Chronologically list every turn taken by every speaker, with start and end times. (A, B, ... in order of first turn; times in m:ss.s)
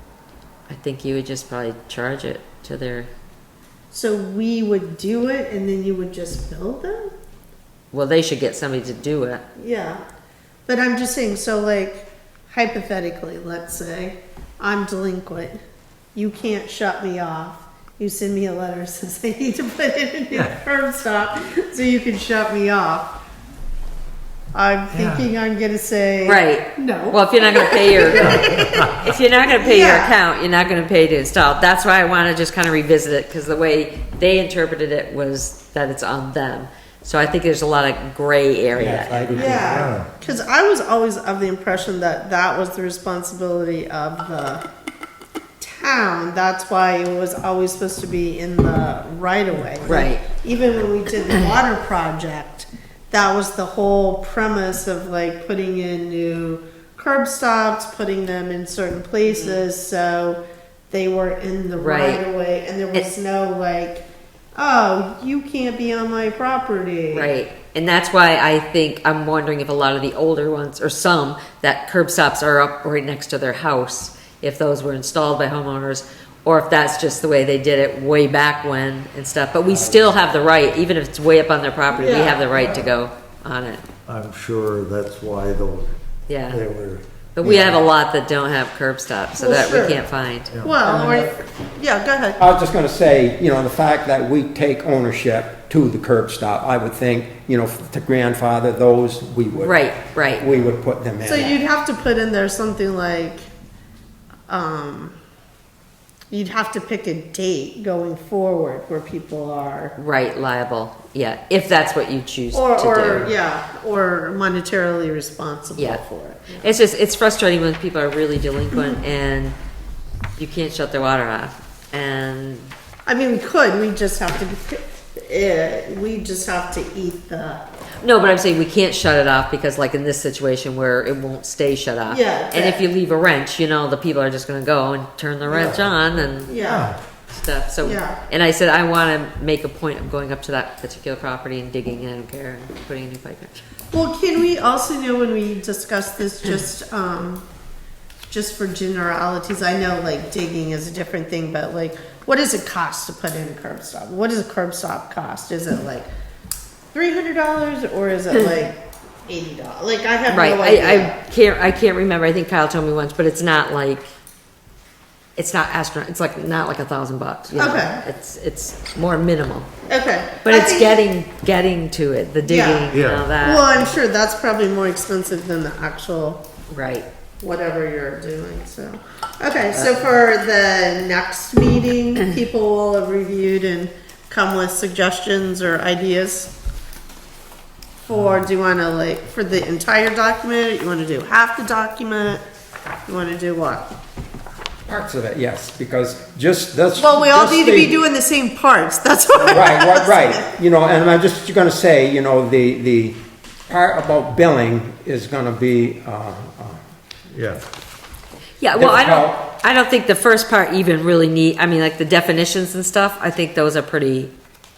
0:00.7-0:03.1 A
0:03.9-0:07.1 B
0:07.9-0:09.4 A
0:09.6-0:10.0 B
0:10.7-0:15.6 B
0:16.2-0:23.2 B
0:20.3-0:20.6 C
0:24.5-0:28.8 B
0:24.9-0:25.3 C
0:26.2-0:39.6 A
0:28.2-0:29.1 C
0:29.6-0:30.2 B
0:38.8-0:39.8 D
0:39.3-0:44.6 B
0:39.3-0:40.1 C
0:45.6-1:07.3 B
0:49.8-0:50.2 A
0:51.3-0:51.6 A
0:59.3-0:59.6 A
1:01.8-1:02.2 A
1:07.1-1:23.8 A
1:19.7-1:20.0 C
1:21.9-1:22.8 B
1:24.1-1:26.0 C
1:26.3-1:26.6 A
1:26.5-1:27.8 C
1:27.4-1:30.5 A
1:29.4-1:30.1 B
1:30.5-1:30.8 C
1:30.6-1:32.4 B
1:30.8-1:31.3 D
1:32.4-1:41.6 D
1:39.6-1:40.4 A
1:41.2-1:43.5 B
1:44.5-1:45.2 B
1:46.3-1:50.0 B
1:50.0-1:53.3 A
1:52.5-1:56.7 B
1:55.8-1:56.0 A
1:56.6-1:59.6 A
1:58.7-1:59.0 B
2:00.4-2:02.7 A
2:03.1-2:07.6 B
2:08.0-2:16.5 A
2:12.1-2:12.8 B
2:15.6-2:17.0 B
2:16.6-2:17.0 C
2:17.3-2:23.6 A
2:17.8-2:18.2 B
2:23.9-2:27.4 B
2:28.3-2:36.1 B
2:36.9-2:41.2 B
2:40.3-2:44.1 A
2:45.4-2:49.7 A
2:47.6-2:48.0 B
2:49.9-2:51.0 B
2:50.4-2:53.8 A
2:52.4-2:56.4 B
2:52.9-2:53.3 C
2:56.7-2:57.1 A
2:57.4-3:06.5 B
2:59.7-3:00.0 A
3:08.0-3:12.4 B
3:13.1-3:13.9 B
3:14.9-3:18.0 D
3:17.0-3:20.5 B
3:19.4-3:26.8 D
3:27.3-3:27.6 C
3:28.6-3:34.3 A
3:28.8-3:29.4 D